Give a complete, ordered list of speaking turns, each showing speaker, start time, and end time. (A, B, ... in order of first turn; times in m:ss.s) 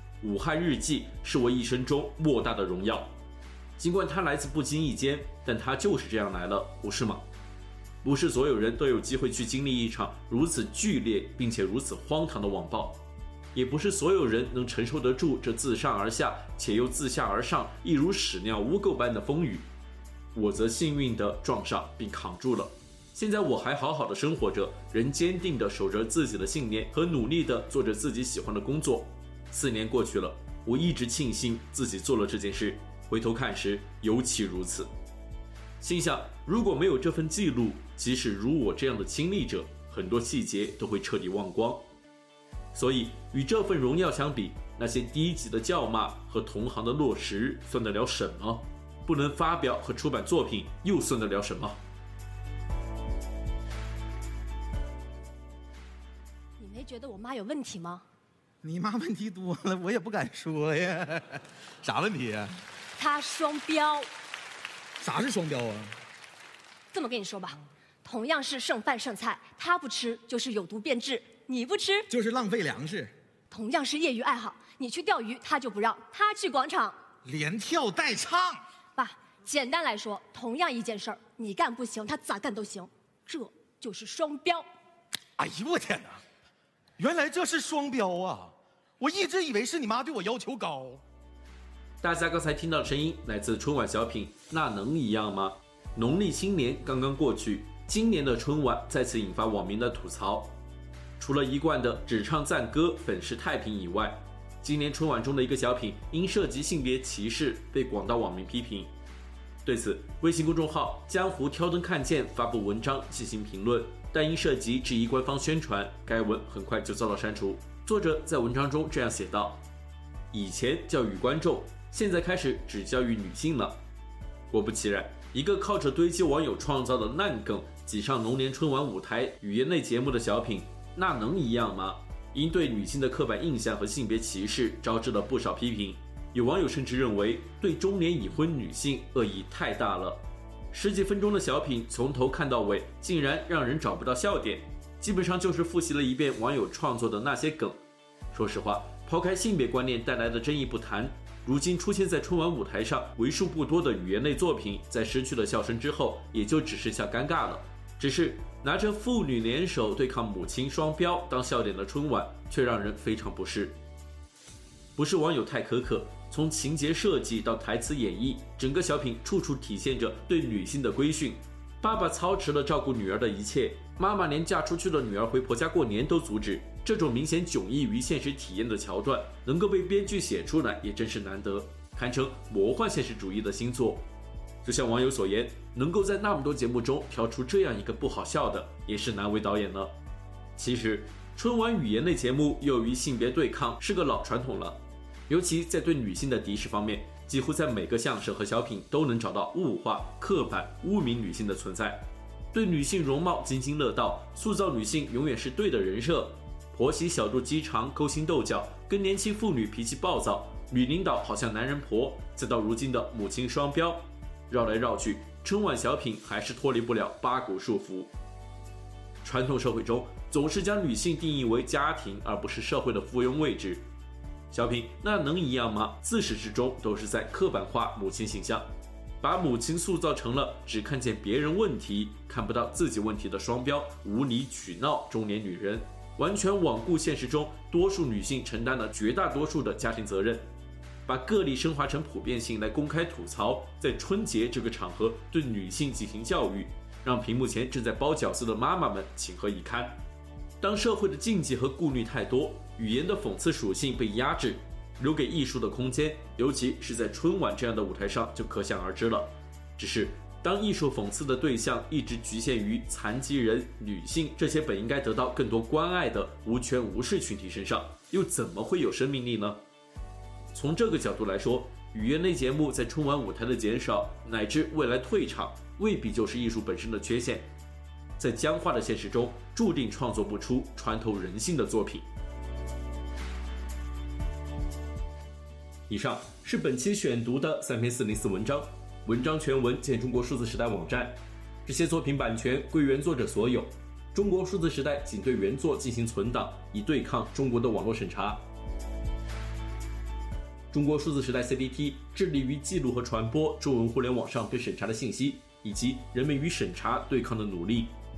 0:00.2-0:03.1 A
0:03.8-0:07.2 A
0:08.0-0:13.0 A
0:13.5-0:19.7 A
0:20.3-0:34.9 A
0:35.8-0:41.8 A
0:42.7-0:51.8 A
0:56.6-0:58.0 B
0:58.6-1:02.6 C
1:03.0-1:04.1 B
1:05.0-1:06.0 C
1:06.9-1:12.1 B
1:12.1-1:13.1 C
1:13.5-1:17.0 B
1:17.2-1:18.6 C
1:19.0-1:24.7 B
1:25.4-1:26.2 C
1:27.0-1:31.0 C
1:32.0-1:40.5 A
1:41.2-1:48.9 A
1:49.6-1:59.6 A
2:00.3-2:03.8 A
2:04.5-2:27.8 A
2:28.3-2:43.8 A
2:45.0-3:04.1 A
3:04.6-3:09.9 A
3:10.6-3:38.1 A
3:39.2-3:43.8 A
3:44.5-3:48.6 A
3:49.2-4:00.5 A
4:01.1-4:10.0 A
4:10.6-4:29.6 A
4:30.5-4:37.5 A
4:38.2-4:42.0 A
4:45.9-4:58.4 A
5:00.7-5:07.9 A